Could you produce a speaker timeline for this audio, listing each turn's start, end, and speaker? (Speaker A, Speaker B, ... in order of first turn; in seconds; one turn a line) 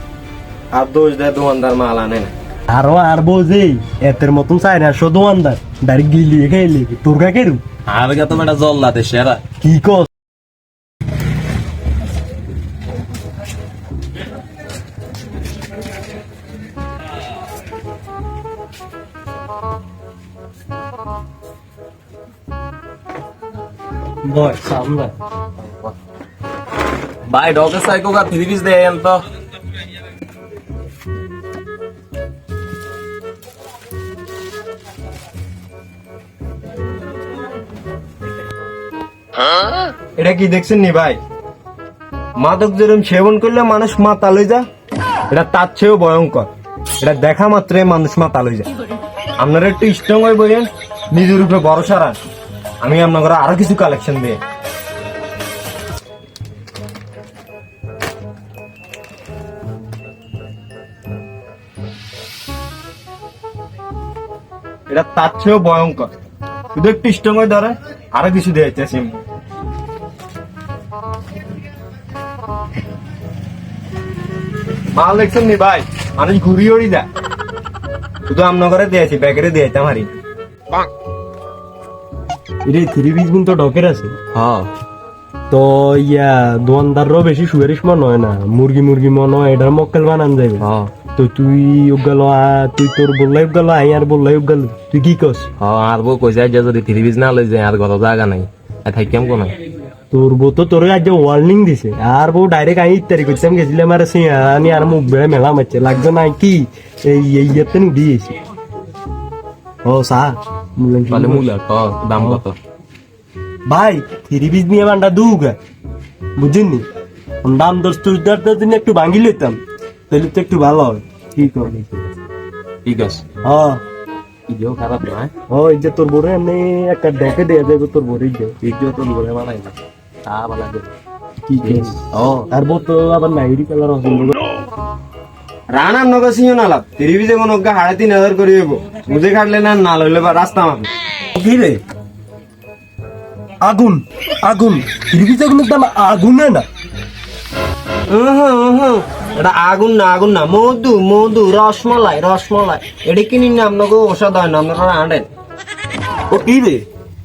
Speaker A: 0.7-2.3
Speaker B: 2.7-7.6
Speaker C: 7.9-9.4
Speaker B: 9.6-10.1
Speaker B: 24.2-25.1
Speaker C: 27.3-29.2
Speaker A: 40.2-41.2
Speaker A: 42.4-44.6
Speaker A: 45.3-46.5
Speaker A: 47.0-48.7
Speaker A: 49.4-52.2
Speaker A: 52.8-54.4
Speaker A: 64.9-66.1
Speaker A: 66.7-69.2
Speaker A: 74.9-77.1
Speaker A: 78.3-80.1
Speaker B: 82.7-84.2
Speaker C: 84.3-84.7
Speaker B: 85.5-95.5
Speaker C: 90.6-90.9
Speaker C: 95.6-99.5
Speaker B: 100.1-108.3
Speaker B: 109.8-111.5
Speaker C: 111.1-112.5
Speaker B: 112.2-112.4
Speaker B: 113.7-115.6
Speaker B: 116.4-116.8
Speaker B: 117.4-121.7
Speaker C: 121.4-122.1
Speaker C: 122.8-123.2
Speaker B: 123.4-123.8
Speaker C: 124.5-125.3
Speaker B: 125.5-128.6
Speaker C: 128.6-129.7
Speaker C: 130.2-130.9
Speaker B: 131.5-132.0
Speaker C: 131.6-132.5
Speaker B: 132.5-134.4
Speaker A: 135.7-140.9
Speaker C: 141.3-141.8
Speaker B: 143.6-146.7
Speaker A: 148.1-155.3
Speaker C: 156.3-156.8